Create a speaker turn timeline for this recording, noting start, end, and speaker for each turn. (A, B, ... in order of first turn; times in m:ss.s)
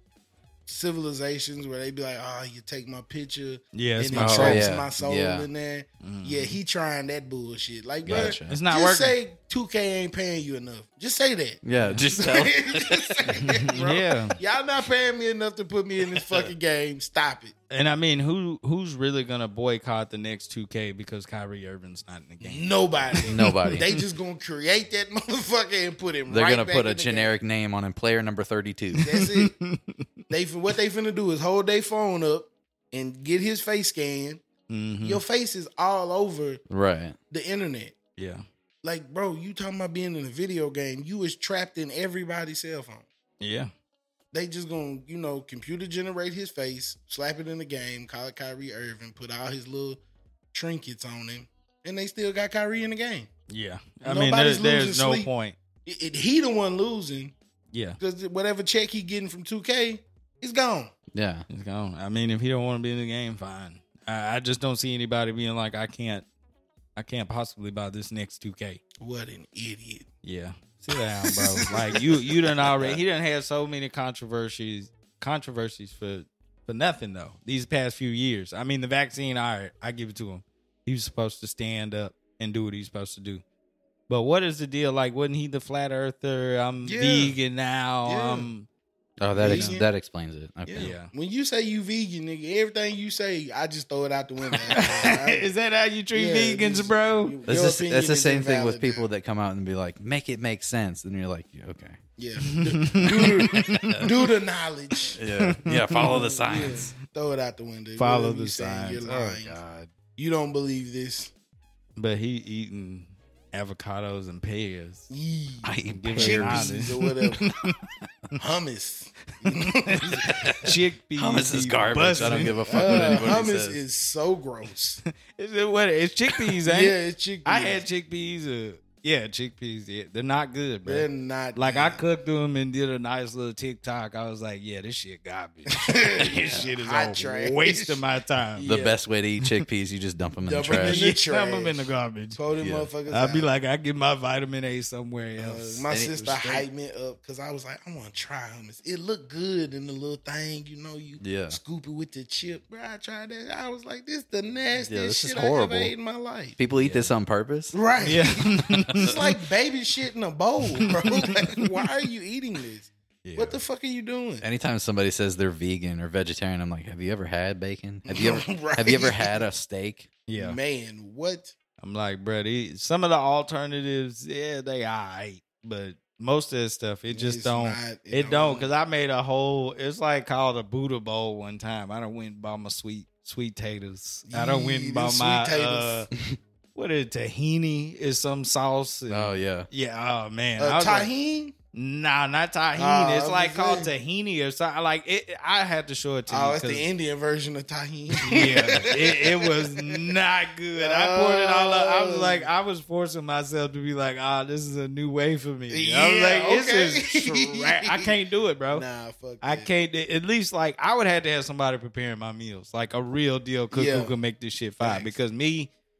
0:00.7-0:17.5 A
0:03.7-0:04.6 B
0:04.1-0:05.5 C
0:06.0-0:06.6 B
0:08.0-0:08.6 C
0:08.1-0:09.1 B
0:11.6-0:13.3 C
0:13.4-0:14.4 B
0:16.2-0:16.5 C
0:17.7-0:24.0 B
0:22.4-0:27.3 A
0:23.3-0:23.9 C
0:26.3-0:29.1 C
0:29.0-0:30.0 B
0:29.0-0:29.5 A
0:30.3-0:34.4 A
0:34.7-0:35.2 B
0:35.0-0:36.6 A
0:36.7-0:37.2 C
0:37.3-0:38.0 A
0:38.2-0:38.4 B
0:38.8-0:43.0 A
0:43.4-0:43.7 B
0:44.3-0:50.0 A
0:50.5-0:53.3 A
0:53.5-0:55.5 B
0:54.0-0:55.3 A
0:55.8-0:57.3 A
0:57.7-0:58.0 B
0:58.0-1:00.9 A
1:01.1-1:01.4 C
1:01.5-1:06.2 B
1:07.0-1:08.8 B
1:09.0-1:10.0 A
1:10.2-1:23.4 B
1:11.0-1:12.3 A
1:24.1-1:28.7 B
1:26.8-1:27.4 A
1:28.0-1:28.5 A
1:29.2-1:30.9 C
1:29.4-1:29.9 A
1:29.4-1:29.8 B
1:30.6-1:35.5 A
1:30.8-1:31.1 B
1:34.7-1:37.4 B
1:36.1-1:39.1 A
1:37.5-1:42.0 C
1:42.2-1:45.2 A
1:42.4-1:44.1 B
1:43.5-1:44.1 C
1:45.2-1:46.9 C
1:45.3-1:46.9 B
1:46.0-1:49.6 A
1:48.0-1:49.9 B
1:50.2-1:51.3 A
1:52.0-1:55.1 B
1:55.1-1:57.4 A
1:55.6-1:56.8 C
1:55.9-1:57.9 B
1:58.4-2:00.6 A
1:59.5-2:03.2 B
2:00.2-2:03.8 C
2:02.2-2:05.0 A
2:05.0-2:18.7 B
2:06.6-2:07.8 A
2:10.8-2:12.0 A
2:15.7-2:18.0 A
2:16.4-2:16.7 C
2:18.5-2:19.0 A
2:18.6-2:21.0 C
2:20.4-2:23.5 A
2:20.7-2:22.4 B
2:22.6-2:22.9 C
2:23.1-2:25.8 B
2:25.4-2:36.6 A
2:25.9-2:26.6 C
2:31.2-2:31.6 C
2:34.8-2:35.9 C
2:36.6-2:37.8 C
2:36.8-2:37.1 B
2:37.7-2:44.4 A
2:38.0-2:39.2 B
2:38.9-2:39.2 C
2:40.8-2:41.3 B
2:43.2-2:43.6 B
2:44.4-2:50.1 C
2:48.0-2:49.4 A
2:50.3-2:50.6 B
2:50.3-2:51.5 A
2:51.8-3:06.1 B
2:57.1-2:58.7 A
3:04.3-3:06.1 A
3:06.7-3:11.1 B
3:09.1-3:09.7 C
3:10.6-3:11.5 A
3:11.7-3:16.8 B
3:12.7-3:13.9 A
3:16.3-3:19.9 A
3:18.2-3:28.8 B
3:20.8-3:22.5 A
3:25.7-3:28.1 A
3:28.7-3:29.7 A
3:29.4-3:35.7 B
3:33.7-3:34.1 A
3:34.8-3:35.2 A